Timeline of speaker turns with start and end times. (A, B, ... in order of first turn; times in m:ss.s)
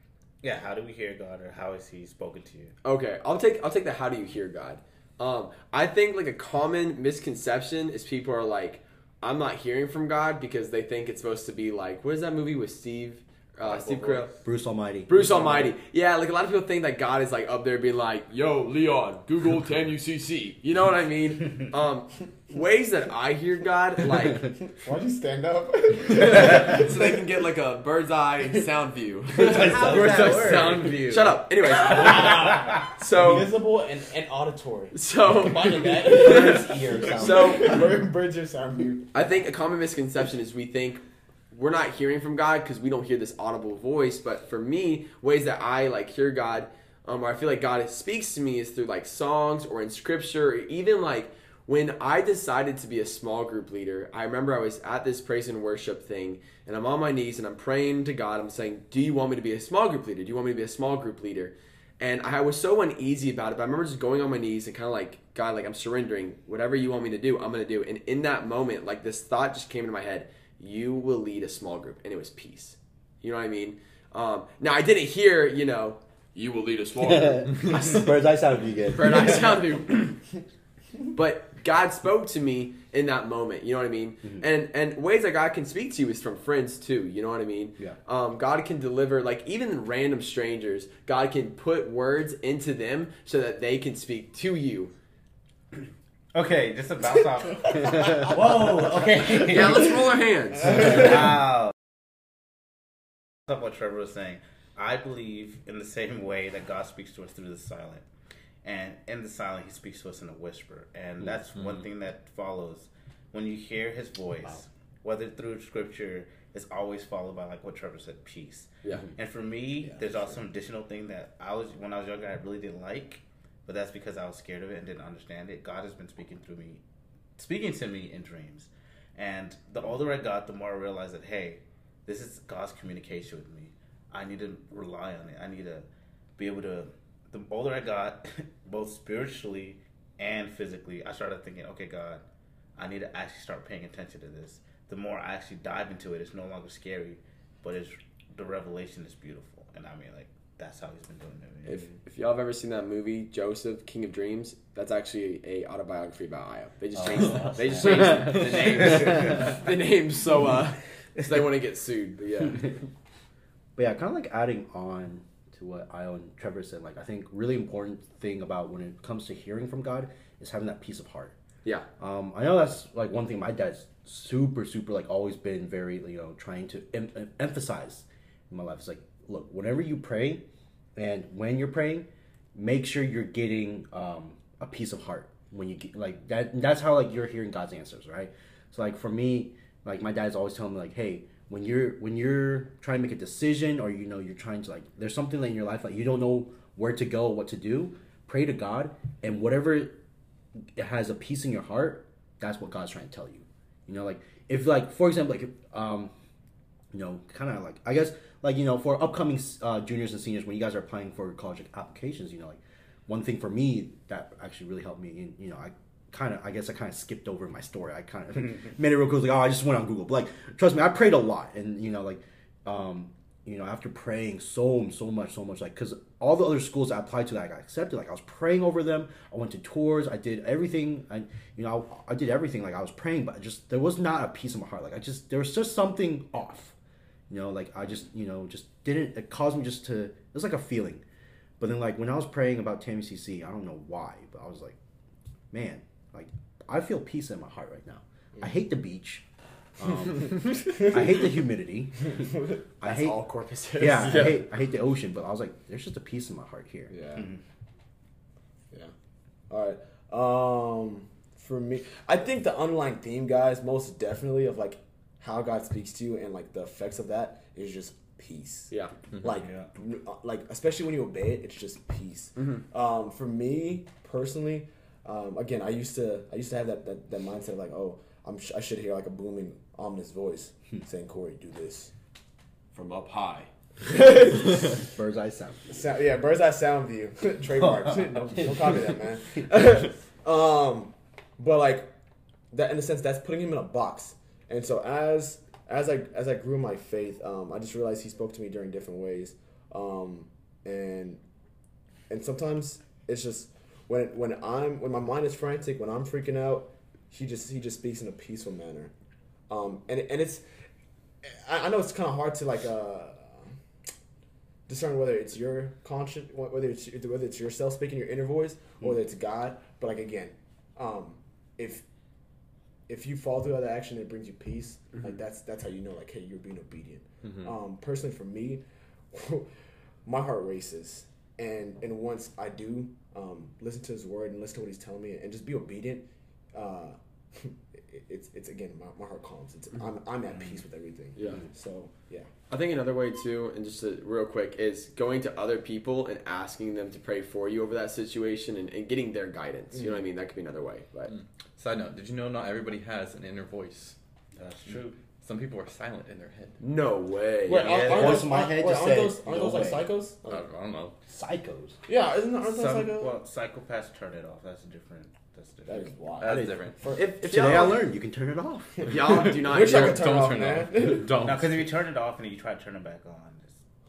0:00.4-0:02.7 A
0:02.8-0:14.3 B
0:13.6-0:14.4 A
0:14.4-0:15.1 C
0:15.1-0:24.5 B
0:15.1-0:15.7 D
0:24.8-0:27.2 D
0:26.2-0:33.5 B
0:29.4-0:30.9 A
0:29.6-0:31.4 E
0:31.8-0:33.0 A
0:31.8-0:39.1 D
0:34.9-0:37.8 B
0:36.3-0:37.8 A
0:37.0-0:37.6 C
0:39.1-1:18.1 B
1:17.0-1:19.6 C
1:18.9-1:20.2 B
1:21.1-1:34.9 B
1:36.3-1:40.1 A
1:39.4-1:41.2 B
1:40.7-1:41.7 A
1:43.5-1:48.1 A
1:48.6-2:06.8 A
2:07.4-2:22.2 A
2:22.8-2:31.8 A
2:31.6-2:42.8 B
2:37.0-2:39.6 A
2:37.0-2:39.4 C
2:43.8-2:51.4 C
2:52.0-3:00.4 C
3:01.0-3:20.0 C
3:20.8-3:26.1 C
3:26.9-3:56.8 C
3:57.3-4:01.0 C
4:01.6-4:04.8 C
4:05.5-4:09.2 C
4:09.8-4:12.2 C
4:10.4-4:10.8 D
4:12.8-4:13.2 C
4:12.8-4:14.4 B
4:13.8-4:16.9 C
4:16.9-4:17.2 D
4:19.5-4:41.9 D
4:29.3-4:29.7 A
4:32.4-4:32.6 B
4:42.7-4:43.5 B
4:43.8-4:44.6 D
4:44.7-4:45.7 C
4:45.7-4:51.9 D
4:52.5-5:01.2 D
5:02.1-5:08.9 D
5:09.5-5:10.4 D
5:11.2-5:13.4 D
5:14.7-5:21.8 D
5:22.9-5:29.5 D
5:27.2-5:27.5 E
5:30.0-5:42.3 D
5:41.2-5:41.4 B
5:42.5-5:51.1 B
5:51.1-5:54.0 E
5:54.4-5:55.0 A
5:55.2-5:56.6 E
5:56.6-5:58.1 B
5:57.5-6:00.4 D
5:57.5-5:58.2 A
5:57.7-5:59.9 C
6:00.2-6:01.0 E
6:01.1-6:01.8 C
6:01.9-6:03.2 D
6:02.4-6:06.0 A
6:05.7-6:07.1 D
6:06.2-6:06.8 E
6:06.2-6:06.6 C
6:06.9-6:07.8 B
6:07.2-6:09.0 C
6:08.8-6:11.1 D
6:08.9-6:10.0 B
6:09.5-6:11.6 E
6:11.2-6:13.6 A